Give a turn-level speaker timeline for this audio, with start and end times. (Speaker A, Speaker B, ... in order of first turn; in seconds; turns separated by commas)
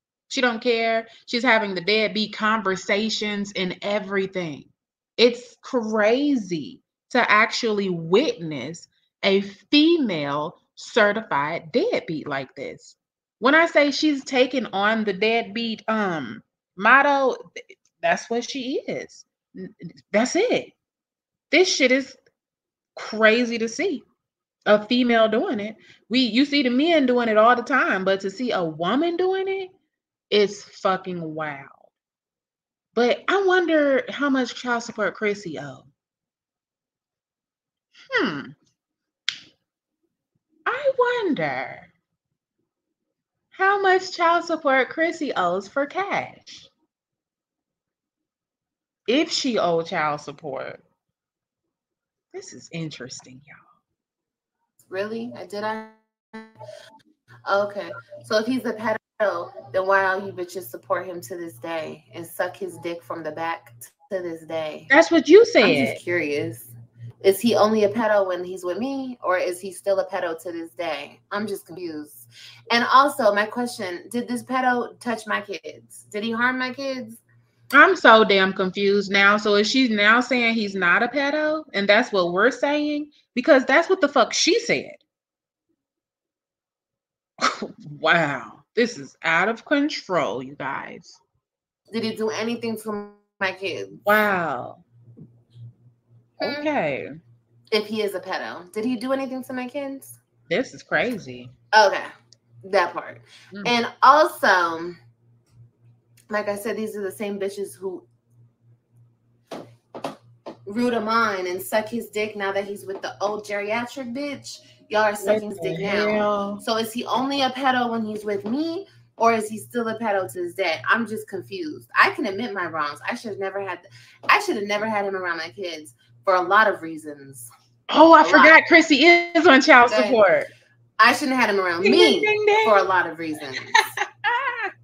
Speaker A: 0.3-20.7, Speaker A: 21.5-22.2, Speaker A: 23.0-24.1, Speaker A: 24.7-29.7, Speaker A: 30.3-31.9, Speaker A: 33.0-35.9, Speaker A: 38.1-38.5, Speaker A: 40.7-41.9, Speaker A: 43.5-46.7, Speaker A: 49.1-50.8, Speaker A: 52.3-53.7, Speaker B: 54.9-56.5, Speaker B: 57.5-64.9, Speaker A: 64.9-66.0, Speaker B: 65.6-77.2, Speaker A: 77.7-85.0, Speaker A: 87.4-91.2, Speaker B: 91.9-94.0, Speaker A: 94.0-94.8, Speaker A: 96.4-97.2, Speaker B: 96.4-96.7, Speaker B: 97.7-100.2, Speaker A: 100.5-101.5, Speaker B: 101.7-102.1, Speaker B: 102.6-105.0, Speaker B: 106.3-108.1, Speaker B: 110.7-127.5, Speaker A: 115.2-116.6, Speaker A: 127.9-130.5, Speaker B: 128.2-128.6, Speaker B: 129.9-130.2, Speaker B: 131.0-133.9, Speaker A: 131.8-132.8, Speaker A: 133.8-134.7